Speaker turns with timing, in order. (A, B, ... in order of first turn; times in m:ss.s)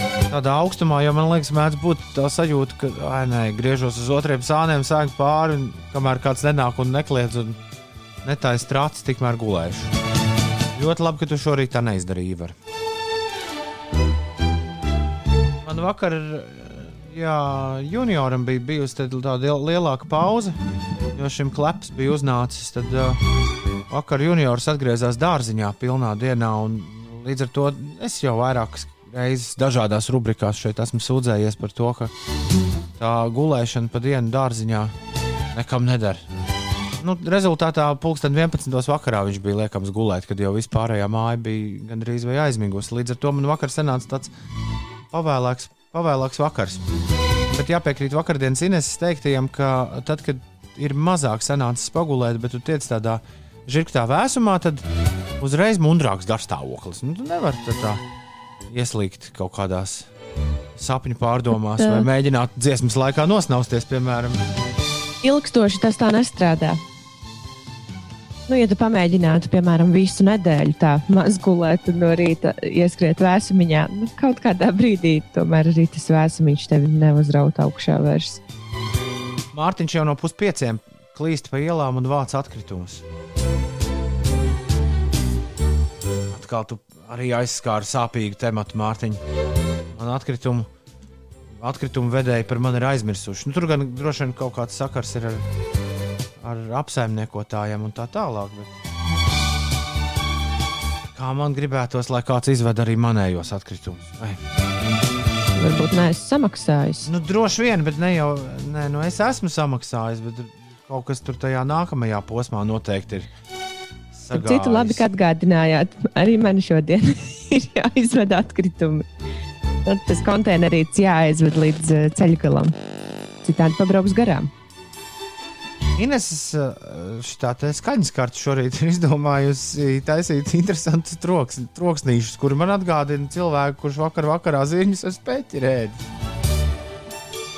0:00.3-0:07.6 A
0:08.2-0:09.9 A
0:10.7-0:12.5 A
0:15.6-0:20.6 A
0:21.1-0:23.2 A
0:23.9-0:32.1 A
0:33.0-0:34.9 A
0:35.5-0:36.2 A
0:37.0-0:44.3 A
0:45.1-0:46.8 A
0:47.5-0:54.8 A
0:55.4-0:58.0 A
0:58.7-1:00.1 A
1:00.8-1:04.5 A
1:01.8-1:02.1 B
1:05.2-1:06.8 B
1:08.5-1:18.4 B
1:19.5-1:23.0 A
1:26.3-1:29.2 A
1:29.9-1:30.7 A
1:31.6-1:35.4 A
1:36.4-1:38.7 A
1:41.1-1:44.4 A
1:45.6-1:47.1 B
1:47.0-1:53.3 A
1:54.1-1:55.0 A
1:54.3-1:59.0 B
1:59.8-2:02.7 B
2:03.4-2:04.5 B
2:06.0-2:16.0 A